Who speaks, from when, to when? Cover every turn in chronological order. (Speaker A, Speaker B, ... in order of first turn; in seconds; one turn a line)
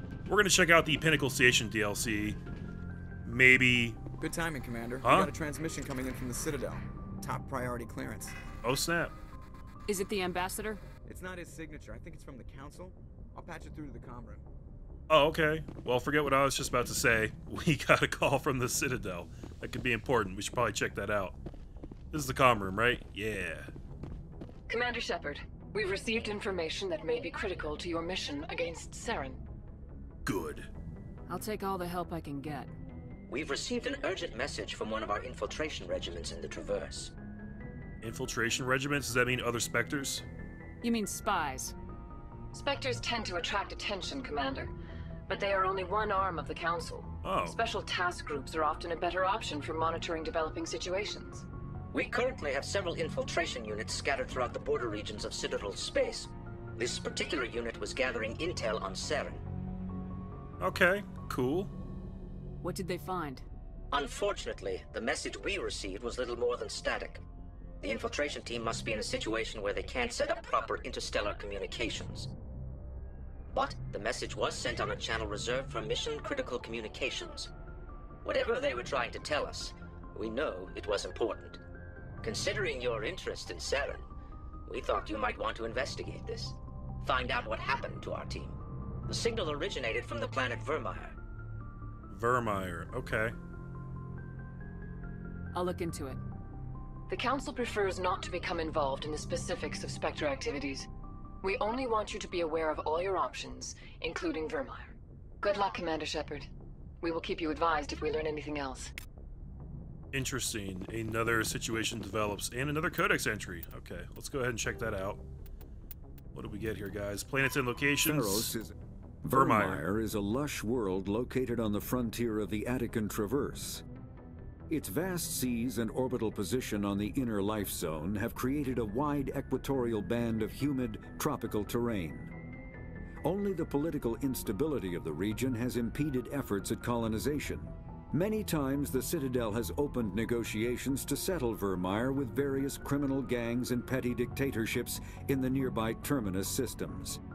Speaker A: 0.3-2.4
Speaker A: 3.2-4.0
Speaker B: 4.2-8.4
Speaker A: 5.0-5.3
Speaker A: 8.6-9.2
Speaker C: 9.9-10.8
Speaker B: 11.1-14.4
Speaker A: 15.1-21.4
Speaker A: 22.1-23.7
Speaker D: 24.7-29.4
Speaker A: 30.2-30.7
Speaker C: 31.3-32.7
Speaker E: 33.3-37.1
Speaker A: 38.0-40.2
Speaker C: 40.8-41.7
Speaker D: 42.5-44.7
Speaker D: 45.3-51.5
Speaker A: 47.2-47.6
Speaker E: 51.9-59.4
Speaker A: 60.6-61.7
Speaker C: 62.6-63.5
Speaker E: 63.9-67.2
Speaker E: 67.8-72.3
Speaker E: 73.5-77.5
Speaker E: 78.2-81.6
Speaker E: 82.2-84.0
Speaker E: 84.7-88.6
Speaker E: 89.1-91.1
Speaker A: 92.1-93.3
Speaker C: 95.5-96.2
Speaker D: 97.1-100.9
Speaker D: 101.4-106.5
Speaker D: 107.0-108.9
Speaker A: 110.1-115.2
Speaker A: 116.3-118.5
Speaker F: 118.0-118.7
Speaker F: 119.2-123.8
Speaker A: 119.3-119.8
Speaker F: 124.7-132.3
Speaker F: 133.2-147.2